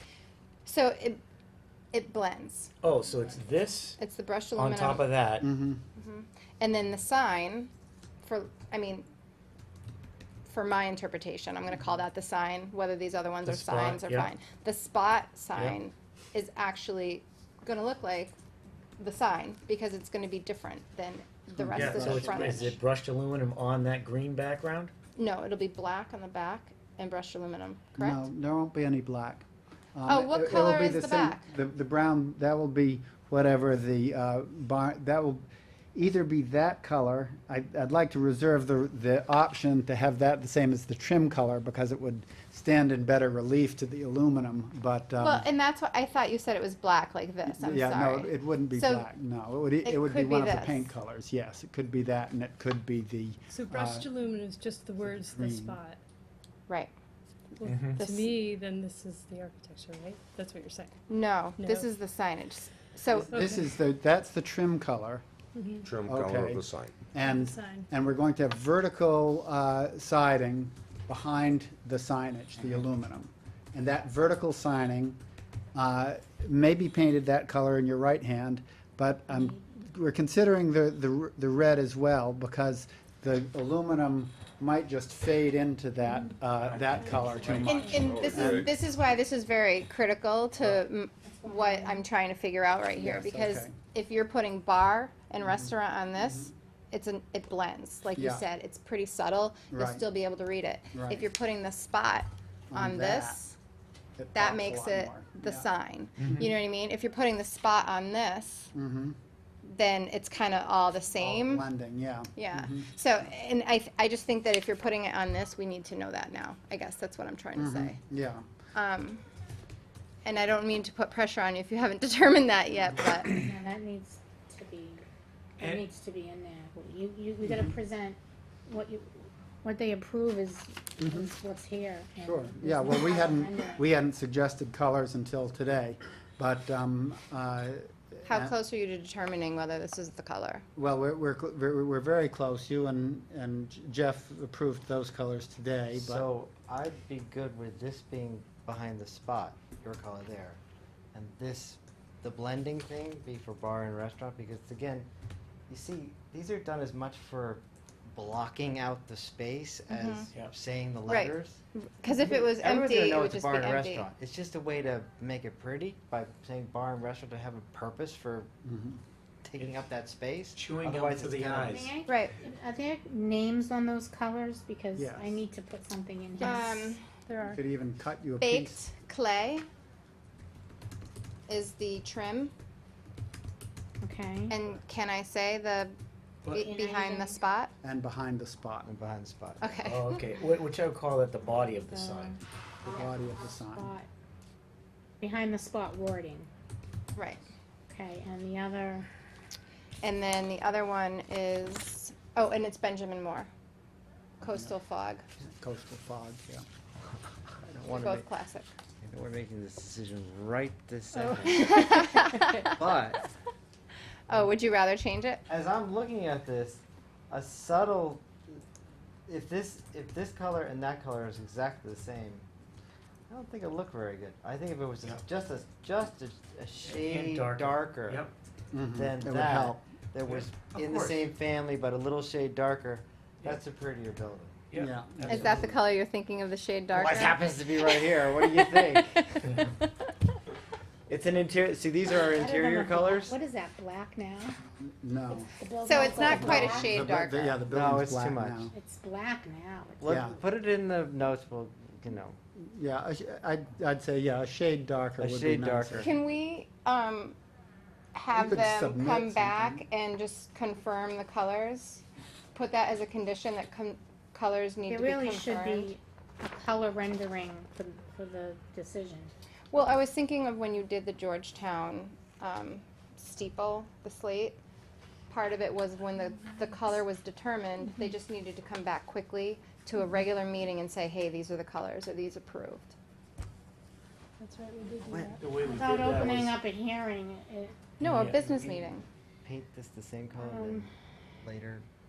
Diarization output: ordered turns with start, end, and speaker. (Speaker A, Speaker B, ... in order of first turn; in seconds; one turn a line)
Speaker A: 0.6-1.2
Speaker A: 1.9-2.7
Speaker B: 2.8-4.0
Speaker A: 4.0-5.0
Speaker B: 4.5-5.5
Speaker C: 5.4-5.8
Speaker A: 5.9-7.7
Speaker A: 8.2-9.1
Speaker A: 10.4-18.3
Speaker B: 13.4-14.3
Speaker A: 19.0-22.8
Speaker C: 21.6-22.7
Speaker B: 21.7-24.9
Speaker A: 25.2-28.3
Speaker C: 28.0-45.5
Speaker A: 30.1-31.5
Speaker A: 45.2-49.1
Speaker C: 47.5-54.1
Speaker A: 49.8-50.9
Speaker D: 53.5-56.0
Speaker C: 55.0-55.8
Speaker D: 57.6-61.0
Speaker B: 57.6-58.0
Speaker A: 57.9-58.3
Speaker A: 61.1-63.3
Speaker D: 61.6-61.9
Speaker C: 63.1-65.2
Speaker D: 63.3-63.7
Speaker D: 65.5-65.9
Speaker E: 65.8-67.0
Speaker C: 66.0-75.2
Speaker D: 67.2-67.9
Speaker C: 75.7-88.7
Speaker F: 79.3-79.6
Speaker F: 86.0-86.4
Speaker B: 86.5-87.8
Speaker F: 87.0-88.1
Speaker A: 87.6-103.6
Speaker E: 87.9-88.8
Speaker F: 91.3-92.1
Speaker C: 93.0-93.8
Speaker C: 95.4-96.5
Speaker C: 98.2-98.4
Speaker C: 99.7-100.0
Speaker C: 100.9-101.2
Speaker C: 102.7-103.4
Speaker C: 104.2-105.7
Speaker A: 104.3-108.7
Speaker B: 106.2-106.5
Speaker C: 108.7-109.2
Speaker A: 109.6-111.7
Speaker C: 111.2-112.9
Speaker A: 112.3-118.0
Speaker C: 117.5-118.5
Speaker A: 118.7-119.2
Speaker A: 120.2-123.4
Speaker F: 123.3-125.0
Speaker F: 125.6-133.8
Speaker C: 127.4-127.8
Speaker C: 131.0-131.3
Speaker C: 132.2-138.5
Speaker A: 138.2-140.6
Speaker C: 140.8-146.2
Speaker G: 145.9-150.6
Speaker G: 151.1-155.1
Speaker G: 155.7-161.6
Speaker A: 159.9-160.3
Speaker A: 161.1-164.1
Speaker G: 162.1-168.5
Speaker C: 168.6-169.0
Speaker G: 169.4-171.9
Speaker B: 169.6-169.8
Speaker B: 170.5-172.0
Speaker F: 171.7-177.0
Speaker A: 172.1-172.3
Speaker C: 174.9-175.3
Speaker A: 176.4-177.0
Speaker D: 177.3-177.6
Speaker C: 177.5-178.8
Speaker A: 178.4-179.7
Speaker A: 181.5-182.5
Speaker F: 184.0-184.6
Speaker A: 184.5-185.9
Speaker A: 186.5-187.7
Speaker F: 186.5-187.4
Speaker C: 187.8-188.9
Speaker G: 188.8-190.0
Speaker A: 189.6-190.2
Speaker B: 189.8-192.4
Speaker F: 191.8-194.1
Speaker C: 192.8-193.9
Speaker F: 195.2-196.5
Speaker A: 197.2-197.5
Speaker F: 197.9-199.1
Speaker A: 200.0-203.5
Speaker A: 204.4-205.2
Speaker C: 205.4-206.6
Speaker G: 207.6-208.2
Speaker A: 207.8-208.7
Speaker G: 209.0-213.3
Speaker A: 211.5-212.9
Speaker F: 212.0-212.3
Speaker A: 214.3-215.4
Speaker G: 215.5-218.6
Speaker G: 219.3-222.4
Speaker G: 223.3-228.2
Speaker B: 226.8-228.3
Speaker C: 228.7-229.8
Speaker G: 228.9-234.7
Speaker B: 230.2-231.3
Speaker B: 234.7-235.7
Speaker C: 234.8-235.7
Speaker A: 235.3-240.1
Speaker B: 236.9-237.5
Speaker G: 237.2-239.3
Speaker G: 241.1-243.4
Speaker F: 242.2-244.6
Speaker C: 245.0-245.5
Speaker F: 245.3-247.0
Speaker A: 245.8-247.6
Speaker C: 246.2-248.7
Speaker G: 247.7-248.7
Speaker F: 248.7-250.3
Speaker G: 250.0-252.4
Speaker C: 250.1-250.3
Speaker C: 252.6-256.1
Speaker G: 255.2-256.1
Speaker A: 256.0-257.4
Speaker A: 258.1-265.9
Speaker C: 258.3-259.8
Speaker F: 264.9-269.3
Speaker A: 269.7-274.6
Speaker A: 275.3-282.9
Speaker D: 284.4-285.8
Speaker G: 285.1-285.4
Speaker B: 285.4-286.6
Speaker F: 285.7-287.9
Speaker B: 288.0-288.7
Speaker A: 288.0-289.1
Speaker G: 288.1-288.8
Speaker G: 289.4-290.9
Speaker F: 290.3-290.9
Speaker G: 291.4-291.9